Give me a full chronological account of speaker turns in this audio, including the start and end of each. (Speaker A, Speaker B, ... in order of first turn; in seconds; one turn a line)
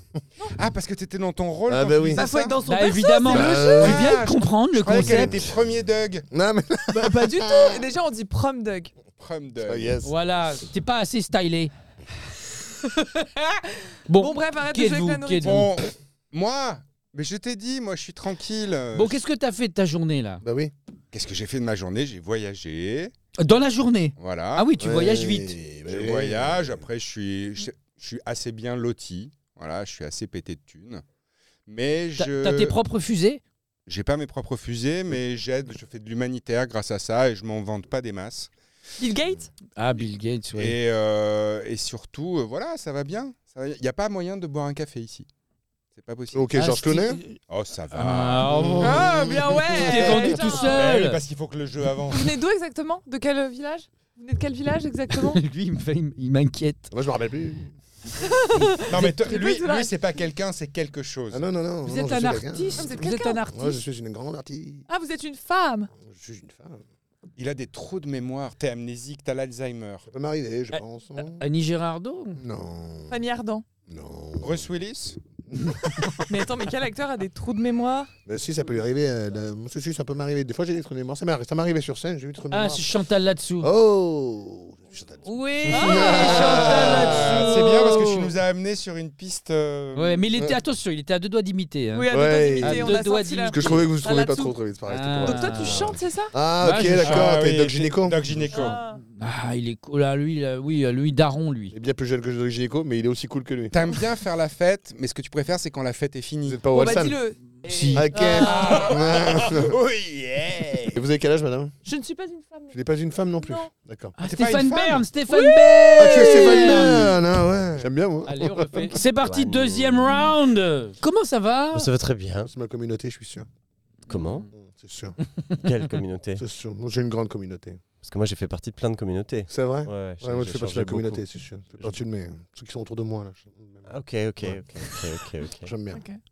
Speaker A: 0.6-2.5
Speaker B: 1.7-2.2
Speaker C: 2.1-3.9
Speaker D: 2.6-5.4
Speaker B: 3.2-4.1
Speaker A: 3.4-6.2
Speaker B: 4.9-5.5
Speaker B: 6.3-7.8
Speaker C: 6.9-8.9
Speaker A: 9.2-9.9
Speaker B: 9.6-10.1
Speaker D: 10.0-11.7
Speaker C: 13.0-15.7
Speaker D: 14.1-15.7
Speaker A: 15.4-19.2
Speaker D: 18.9-20.4
Speaker B: 20.4-20.7
Speaker A: 21.1-23.1
Speaker D: 23.4-25.6
Speaker A: 24.2-24.7
Speaker B: 24.8-26.8
Speaker A: 25.9-31.0
Speaker A: 31.7-32.7
Speaker D: 32.1-33.4
Speaker A: 33.9-38.5
Speaker C: 39.0-39.5
Speaker D: 39.8-40.8
Speaker A: 40.6-45.3
Speaker A: 45.9-46.5
Speaker B: 46.3-47.2
Speaker D: 46.6-47.4
Speaker A: 47.5-49.6
Speaker D: 47.9-49.1
Speaker B: 48.7-49.5
Speaker C: 48.8-50.9
Speaker D: 49.7-51.2
Speaker A: 50.1-52.3
Speaker C: 52.1-55.4
Speaker D: 55.1-56.9
Speaker B: 56.9-57.7
Speaker C: 58.1-59.9
Speaker A: 58.9-61.4
Speaker B: 61.3-62.9
Speaker D: 61.9-63.8
Speaker C: 62.8-63.5
Speaker B: 63.5-64.8
Speaker C: 64.9-65.9
Speaker B: 66.0-66.8
Speaker A: 67.4-70.0
Speaker B: 70.1-71.4
Speaker D: 70.7-72.4
Speaker B: 72.4-73.2
Speaker C: 73.1-73.6
Speaker B: 73.9-74.7
Speaker A: 74.4-75.2
Speaker B: 75.5-76.2
Speaker C: 76.3-78.1
Speaker B: 78.2-82.9
Speaker D: 82.5-83.7
Speaker B: 83.6-87.3
Speaker D: 85.2-88.3
Speaker C: 85.7-87.3
Speaker A: 86.1-90.2
Speaker D: 89.9-93.9
Speaker C: 91.9-94.5
Speaker B: 92.1-92.9
Speaker B: 93.5-98.2
Speaker D: 94.9-96.0
Speaker C: 95.2-96.3
Speaker D: 96.6-97.3
Speaker A: 97.0-98.8
Speaker C: 98.5-99.0
Speaker D: 98.6-101.7
Speaker B: 101.7-103.7
Speaker A: 103.7-106.6
Speaker B: 106.4-107.2
Speaker C: 106.7-109.0
Speaker D: 107.6-108.1
Speaker B: 107.9-109.7
Speaker A: 108.4-111.0
Speaker B: 110.9-111.7
Speaker C: 111.8-112.8
Speaker B: 112.7-114.1
Speaker C: 113.4-113.7
Speaker D: 114.2-117.2
Speaker A: 114.2-115.0
Speaker C: 115.3-116.9
Speaker B: 116.0-118.9
Speaker D: 118.2-121.9
Speaker E: 119.2-120.3
Speaker E: 121.7-122.5
Speaker B: 122.4-123.5
Speaker E: 124.1-124.5
Speaker B: 124.5-125.2
Speaker E: 125.6-126.4
Speaker B: 126.4-127.8
Speaker E: 128.0-131.2
Speaker B: 129.5-134.6
Speaker E: 133.9-135.7
Speaker B: 135.6-136.0
Speaker C: 135.9-136.2